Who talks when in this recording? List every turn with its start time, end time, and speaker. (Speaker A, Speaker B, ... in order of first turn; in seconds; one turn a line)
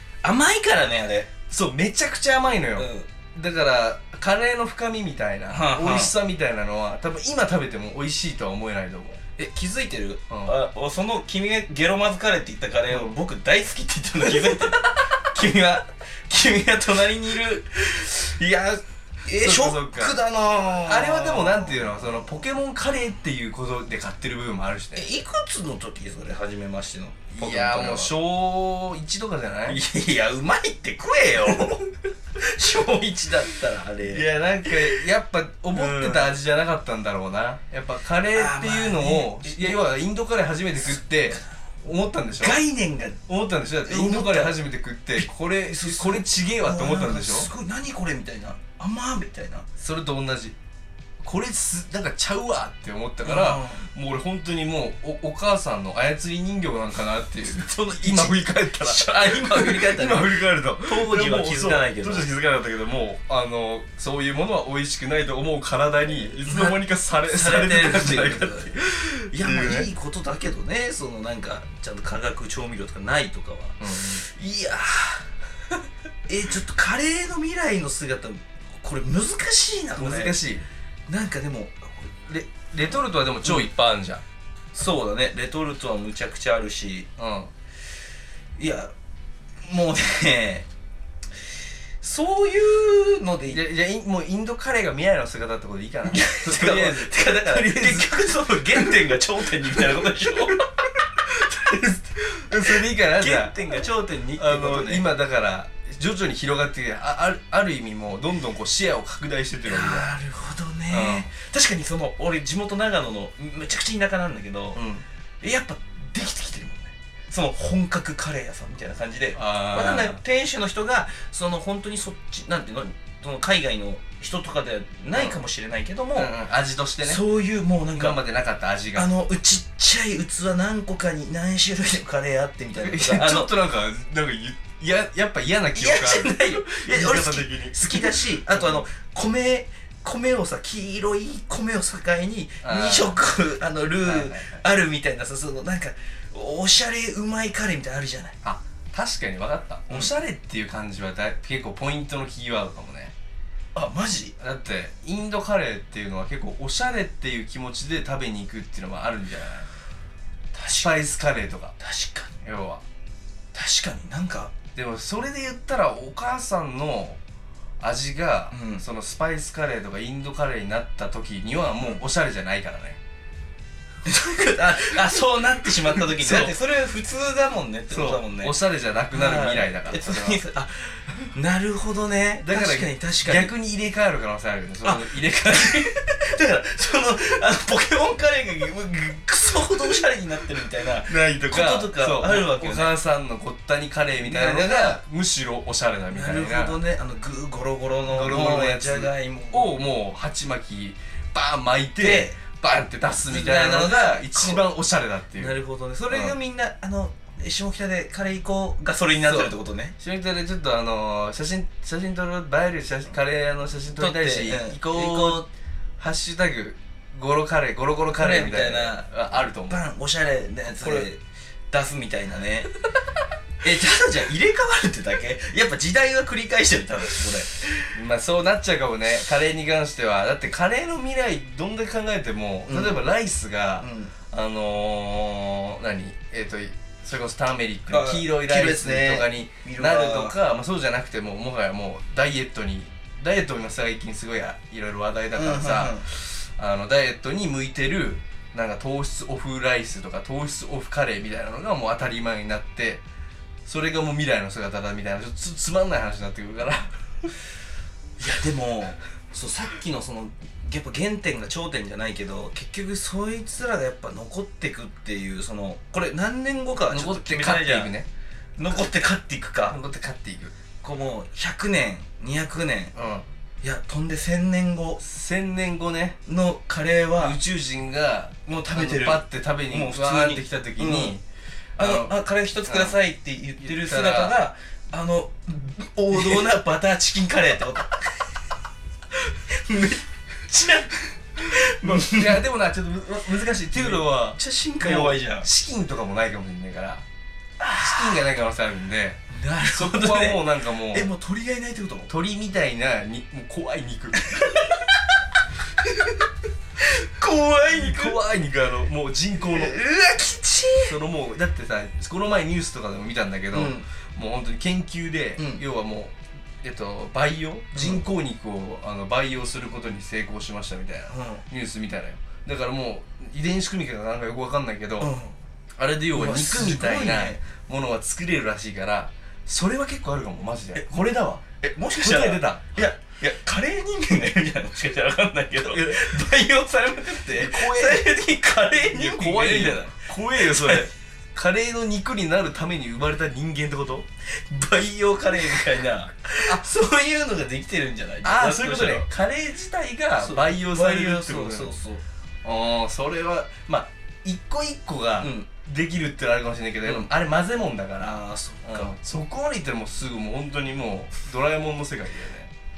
Speaker A: 0.2-1.3
Speaker B: 1.5-9.2
Speaker A: 2.8-3.1
Speaker A: 5.5-6.1
Speaker A: 9.4-22.1
Speaker B: 12.9-13.2
Speaker B: 19.4-20.1
Speaker B: 20.8-25.1
Speaker A: 24.9-28.1
Speaker B: 27.4-29.8
Speaker A: 29.7-35.0
Speaker B: 34.0-42.6
Speaker A: 35.7-36.4
Speaker A: 38.3-39.8
Speaker A: 42.4-43.2
Speaker B: 43.3-47.5
Speaker A: 43.9-44.6
Speaker A: 45.1-49.7
Speaker B: 49.8-50.5
Speaker B: 51.2-69.9
Speaker A: 53.2-53.9
Speaker A: 57.4-62.3
Speaker A: 66.4-75.3
Speaker B: 73.8-74.2
Speaker A: 76.3-80.4
Speaker B: 79.9-80.6
Speaker A: 81.1-82.1
Speaker B: 82.3-84.2
Speaker A: 84.7-87.1
Speaker B: 87.2-87.5
Speaker A: 88.6-88.9
Speaker A: 89.6-90.7
Speaker A: 92.0-93.6
Speaker B: 93.5-98.9
Speaker A: 96.1-100.7
Speaker B: 100.5-103.6
Speaker A: 102.6-105.1
Speaker B: 104.4-110.1
Speaker A: 109.7-114.8
Speaker B: 110.9-111.3
Speaker B: 114.7-115.0
Speaker A: 115.4-126.3
Speaker B: 119.3-120.2
Speaker B: 125.1-125.4
Speaker B: 126.1-127.2
Speaker A: 127.0-128.2
Speaker B: 127.9-129.1
Speaker A: 128.9-133.5
Speaker B: 132.7-138.8
Speaker A: 135.7-148.4
Speaker B: 142.6-143.2
Speaker B: 144.0-144.6
Speaker B: 148.4-153.1
Speaker A: 153.7-154.3
Speaker B: 154.4-159.7
Speaker A: 160.5-160.9
Speaker B: 160.7-161.8
Speaker A: 161.8-162.3
Speaker B: 162.4-162.8
Speaker A: 163.5-164.5
Speaker B: 164.7-167.2
Speaker B: 167.8-173.0
Speaker A: 168.5-168.8
Speaker A: 174.0-178.6
Speaker B: 175.8-176.6
Speaker B: 177.9-180.4
Speaker A: 179.1-183.5
Speaker B: 182.4-185.9
Speaker A: 184.8-192.9
Speaker B: 191.0-196.8
Speaker A: 194.2-195.0
Speaker A: 196.1-199.8
Speaker B: 198.1-205.6
Speaker A: 202.0-202.3
Speaker A: 203.0-204.7
Speaker A: 205.3-209.9
Speaker B: 206.1-206.4
Speaker B: 209.2-219.8
Speaker A: 213.9-215.5
Speaker A: 218.1-222.7
Speaker B: 220.8-221.1
Speaker A: 223.6-227.9
Speaker B: 227.9-253.0
Speaker A: 232.7-233.0
Speaker A: 233.8-234.1
Speaker A: 237.9-240.4
Speaker A: 245.3-246.1
Speaker B: 253.6-257.3
Speaker A: 258.2-267.9
Speaker B: 266.9-268.1
Speaker A: 268.6-269.8
Speaker B: 269.7-270.5
Speaker A: 270.8-272.9
Speaker B: 272.9-273.2
Speaker A: 273.6-275.0
Speaker B: 275.0-276.2
Speaker A: 276.2-277.4
Speaker B: 277.2-281.2
Speaker A: 278.5-281.1
Speaker B: 281.8-282.9
Speaker A: 281.8-288.3
Speaker B: 283.6-284.4
Speaker A: 289.2-292.4
Speaker B: 291.4-297.0
Speaker A: 293.7-295.5
Speaker A: 297.6-298.2
Speaker B: 297.8-301.1
Speaker A: 299.3-302.1
Speaker B: 302.1-304.6
Speaker A: 304.2-306.2
Speaker A: 306.8-308.2
Speaker B: 307.6-309.7
Speaker A: 309.4-311.0
Speaker B: 310.9-325.1
Speaker A: 313.5-313.9
Speaker A: 315.4-315.6
Speaker A: 317.7-318.0
Speaker A: 321.1-321.4
Speaker A: 325.0-325.4
Speaker B: 325.8-332.9
Speaker A: 326.1-327.4
Speaker A: 331.6-340.9
Speaker B: 335.6-336.2
Speaker B: 337.3-338.1
Speaker B: 338.8-344.1
Speaker A: 344.2-349.1
Speaker B: 348.2-351.7
Speaker A: 350.2-352.0
Speaker B: 352.4-362.5
Speaker A: 355.2-355.5
Speaker A: 358.0-358.9